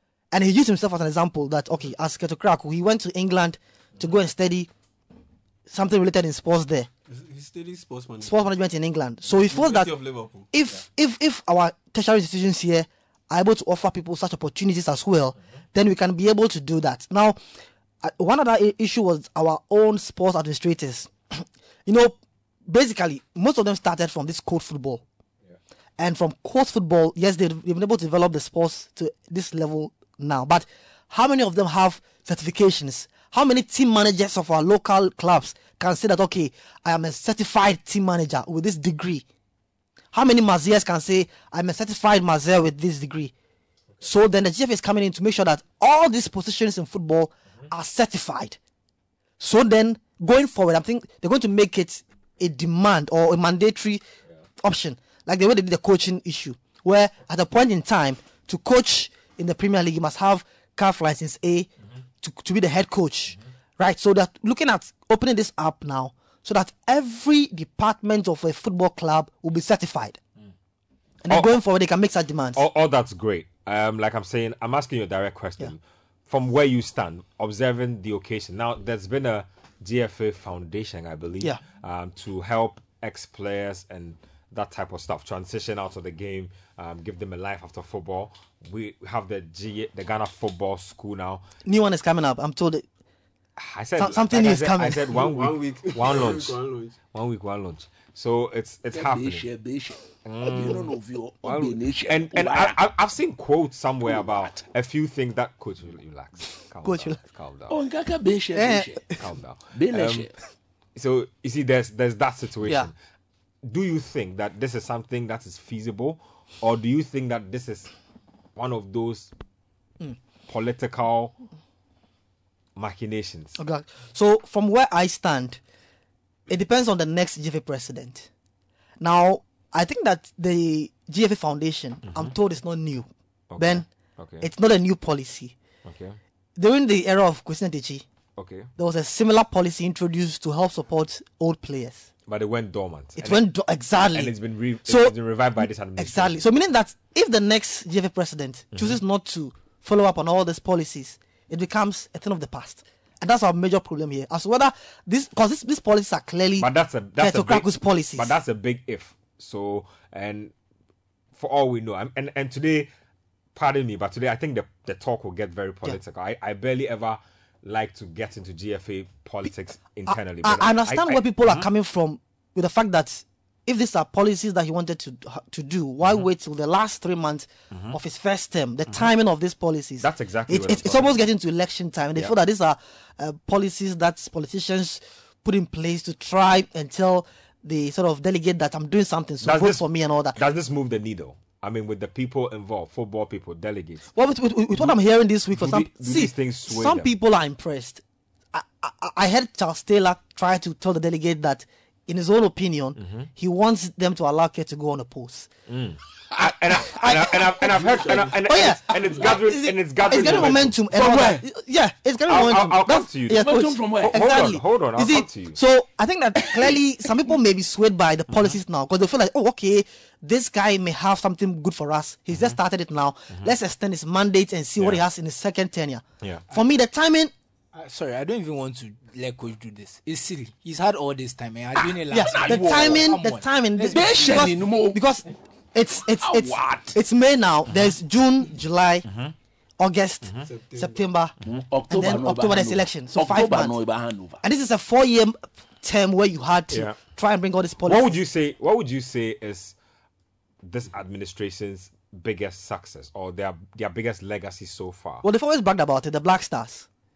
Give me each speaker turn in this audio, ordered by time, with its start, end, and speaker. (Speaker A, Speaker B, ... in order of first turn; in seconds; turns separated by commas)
Speaker A: 0.3-4.7, Speaker A: 5.7-6.9, Speaker B: 7.1-8.5, Speaker A: 8.2-9.9, Speaker B: 9.3-10.5, Speaker A: 10.5-17.4, Speaker A: 18.0-25.0, Speaker A: 26.0-39.2, Speaker A: 40.1-43.3, Speaker A: 44.0-48.6, Speaker A: 49.4-54.0, Speaker A: 54.6-61.7, Speaker A: 62.2-70.2, Speaker A: 71.2-72.6, Speaker C: 72.6-91.5, Speaker A: 91.7-92.8, Speaker C: 93.6-96.6, Speaker A: 94.0-95.1, Speaker B: 95.1-97.0, Speaker C: 97.1-99.5, Speaker D: 98.9-102.8, Speaker C: 100.2-100.9, Speaker C: 101.4-107.8, Speaker D: 104.0-104.7, Speaker A: 106.8-107.2, Speaker D: 107.7-109.2, Speaker A: 108.5-109.2, Speaker C: 109.2-110.3, Speaker D: 109.7-110.3, Speaker C: 111.0-112.9, Speaker C: 113.7-117.9, Speaker C: 118.6-119.3, Speaker C: 120.5-121.3, Speaker C: 122.8-123.6, Speaker A: 123.6-125.6, Speaker A: 126.5-128.3, Speaker A: 129.0-133.8, Speaker C: 132.1-132.3, Speaker C: 133.5-134.5, Speaker A: 134.4-135.5, Speaker C: 135.8-136.2, Speaker A: 136.6-138.0, Speaker C: 138.4-138.7, Speaker A: 138.8-142.1, Speaker C: 142.3-143.5, Speaker A: 143.2-144.3, Speaker C: 144.1-146.4, Speaker A: 144.8-158.3, Speaker C: 148.7-149.0, Speaker C: 156.6-160.5, Speaker C: 161.4-162.9, Speaker C: 163.6-171.7, Speaker A: 170.1-190.4, Speaker C: 177.7-178.0, Speaker C: 180.0-181.2, Speaker C: 189.4-194.1, Speaker A: 194.1-198.0, Speaker C: 195.5-197.1, Speaker A: 198.5-205.5, Speaker C: 203.0-203.3, Speaker C: 205.7-210.8, Speaker A: 206.7-227.3, Speaker B: 207.8-208.2, Speaker D: 210.9-211.4, Speaker C: 212.3-215.6, Speaker D: 213.3-214.3, Speaker E: 227.7-234.5, Speaker D: 231.8-233.2, Speaker A: 232.1-239.1, Speaker D: 233.9-235.0, Speaker D: 236.1-237.0, Speaker C: 239.1-239.3, Speaker A: 239.8-241.3, Speaker C: 240.2-240.5, Speaker B: 240.5-241.0, Speaker D: 241.4-244.4, Speaker A: 241.9-243.8, Speaker A: 244.4-248.2, Speaker C: 246.7-247.0, Speaker C: 247.9-249.8, Speaker C: 250.6-255.2, Speaker A: 255.2-256.9